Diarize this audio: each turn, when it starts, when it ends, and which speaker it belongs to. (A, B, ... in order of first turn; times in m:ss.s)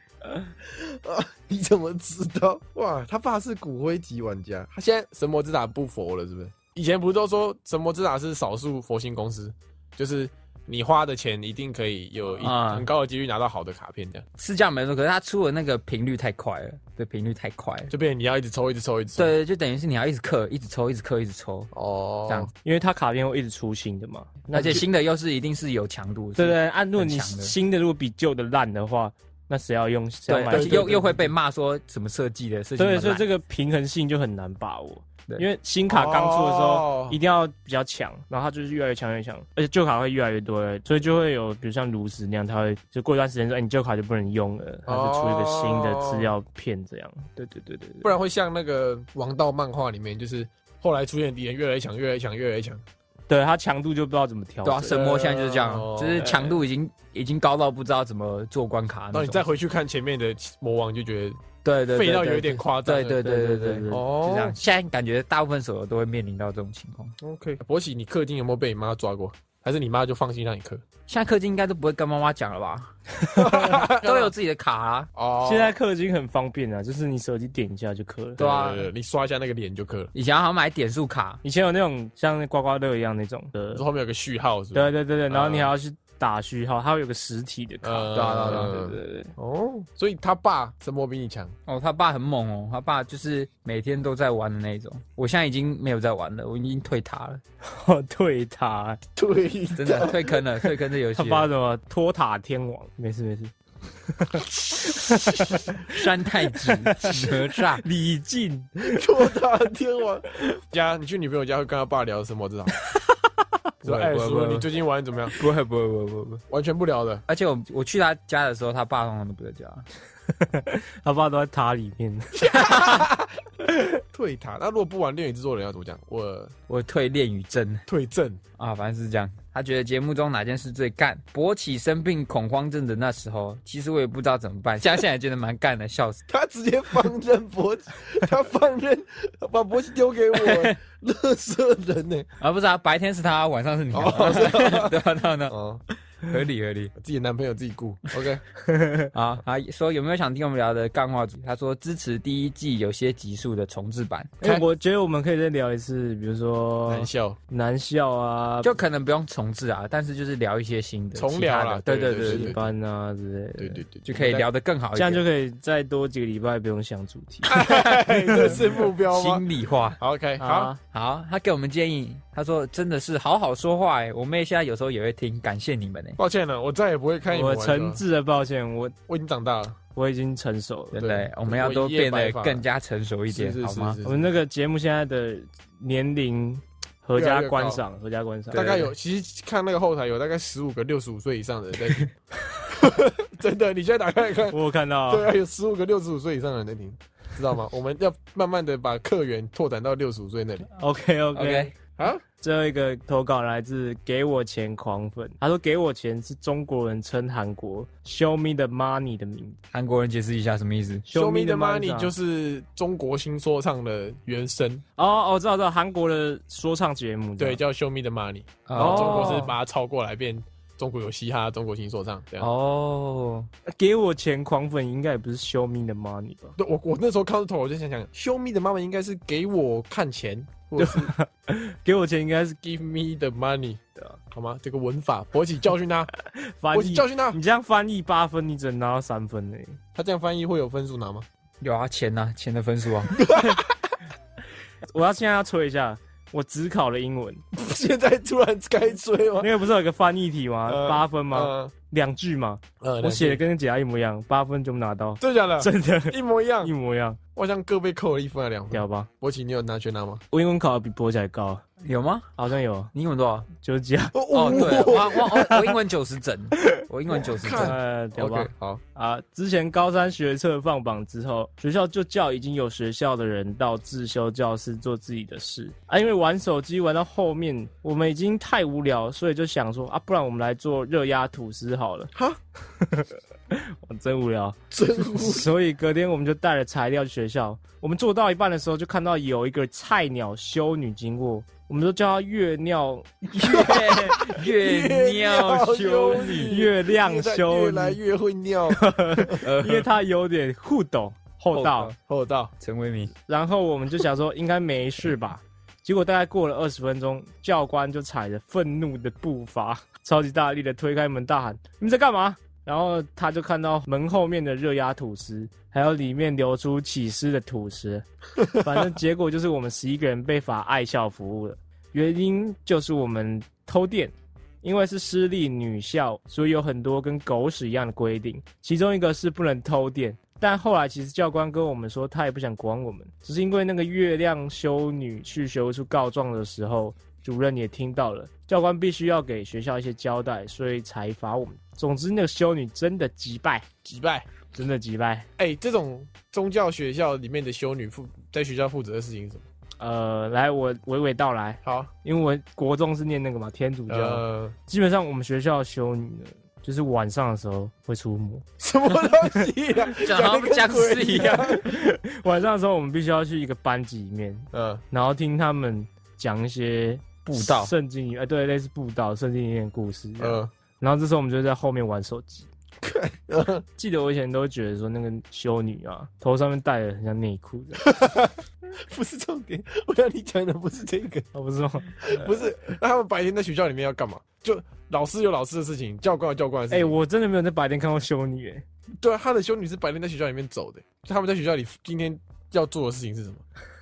0:00.6-0:14.3 A
0:12.4-0:12.9 B
0:14.4-0:17.9 B
0:17.9-0:19.3 A
0:19.2-0:21.7 B
0:21.7-0:22.5 A
0:22.6-0:24.8 C
0:24.5-0:27.5 B
0:26.4-0:31.0 C
0:30.3-0:33.3 B
0:30.5-0:31.3 A
0:32.8-0:48.1 C
0:35.9-0:37.2 A
0:44.9-0:46.3 A
0:48.0-0:52.8 A
0:53.3-0:55.6 C
0:54.6-0:59.4 B
0:55.0-0:56.6 A
0:56.2-0:56.5 C
0:59.1-1:03.2 A
1:01.6-1:07.1 B
1:03.2-1:04.0 C
1:03.9-1:04.6 A
1:07.2-1:10.8 A
1:11.1-1:12.9 B
1:13.3-1:14.3 A
1:13.5-1:15.1 B
1:15.1-1:15.8 A
1:15.4-1:18.4 C
1:18.4-1:18.9 B
1:18.4-1:20.1 A
1:20.1-1:21.4 B
1:21.4-1:23.8 C
1:23.7-1:25.7 A
1:24.7-1:29.3 C
1:27.8-1:31.5 A
1:28.1-1:28.8 B
1:31.7-1:37.4 B
1:37.6-1:39.0 C
1:39.2-1:40.3 A
1:39.8-1:41.5 B
1:40.6-1:43.5 C
1:44.1-1:49.1 C
1:44.7-1:45.7 A
1:45.8-1:47.8 B
1:48.8-1:52.7 A
1:53.8-1:54.6 B
1:53.8-1:55.3 A
1:55.3-1:56.4 B
1:56.5-1:57.2 A
1:57.3-1:59.9 B
2:00.3-2:03.0 C
2:02.4-2:03.3 A
2:04.1-2:06.5 A
2:06.7-2:07.8 B
2:07.9-2:08.4 A
2:08.6-2:16.2 B
2:16.3-2:22.3 A
2:20.3-2:20.8 B
2:22.4-2:25.6 B
2:23.9-2:25.8 A
2:26.2-2:26.9 B
2:27.0-2:28.4 A
2:28.6-2:29.1 C
2:29.1-2:34.3 B
2:34.4-2:38.8 C
2:36.9-2:37.4 A
2:38.6-2:42.6 B
2:41.1-2:42.7 A
2:42.2-2:43.8 C
2:43.6-2:44.4 A
2:44.0-2:45.2 B
2:44.9-2:48.6 C
2:47.4-2:49.4 A
2:48.4-2:50.0 B
2:50.0-2:50.7 A
2:50.4-2:50.8 C
2:50.8-2:56.2 B
2:56.2-2:58.0 A
2:57.3-2:59.0 C
2:59.1-2:59.8 A
2:59.9-3:01.0 C
3:00.9-3:04.0 B
3:01.0-3:02.6 A
3:03.3-3:04.3 A
3:04.0-3:08.6 C
3:07.1-3:07.8 A
3:08.5-3:08.9 B
3:08.5-3:12.1 A
3:12.7-3:20.7 A
3:14.5-3:15.3 C
3:20.8-3:21.7 C
3:21.3-3:21.7 B
3:22.0-3:22.2 A
3:22.4-3:29.6 C
3:29.7-3:31.0 B
3:31.1-3:32.1 C
3:31.1-3:34.8 A
3:35.0-3:37.6 C
3:37.4-3:42.5 A
3:38.6-3:39.6 B
3:38.7-3:39.4 C
3:42.4-3:43.5 B
3:43.7-3:46.6 C
3:46.6-3:51.1 A
3:50.8-3:52.6 C
3:52.6-3:53.8 A
3:54.3-3:56.1 A
3:56.2-3:59.8 C
3:56.7-3:57.4 A
3:59.9-4:01.3 A
4:01.6-4:03.2 B
4:03.1-4:03.9 A
4:04.9-4:07.4 C
4:07.5-4:09.5 A
4:09.4-4:17.2 C
4:10.6-4:11.7 A
4:12.8-4:13.4 A
4:15.2-4:16.7 A
4:17.3-4:20.2 A
4:18.7-4:19.1 C
4:20.3-4:21.6 C
4:21.8-4:22.3 B
4:22.4-4:22.9 C
4:22.9-4:23.5 B
4:23.6-4:25.7 C
4:24.1-4:25.3 A
4:24.3-4:27.8 B
4:27.2-4:28.8 A
4:27.6-4:42.1 C
4:42.1-4:42.4 A
4:42.8-4:53.7 C
4:44.7-4:45.5 A
4:53.3-4:59.4 A
4:53.4-4:56.5 B
4:56.2-4:58.0 C
4:58.7-5:01.9 C
4:59.4-4:59.9 B
5:01.5-5:02.0 B
5:02.1-5:02.5 A
5:02.6-5:03.1 B
5:03.3-5:43.6 C
5:43.8-5:44.3 A
5:44.5-5:45.3 C
5:45.4-5:49.4 A
5:49.8-5:58.4 C
5:51.6-5:51.9 A
5:53.9-5:54.6 A
5:58.6-6:01.7 A
5:59.9-6:01.6 B
6:01.5-6:12.5 C
6:04.5-6:04.8 A
6:07.2-6:07.7 B
6:10.2-6:10.5 A
6:12.8-6:13.6 A
6:13.8-6:17.9 C
6:17.8-6:21.3 A
6:21.3-6:22.4 C
6:21.9-6:27.0 A
6:26.7-6:28.6 C
6:29.0-6:33.4 A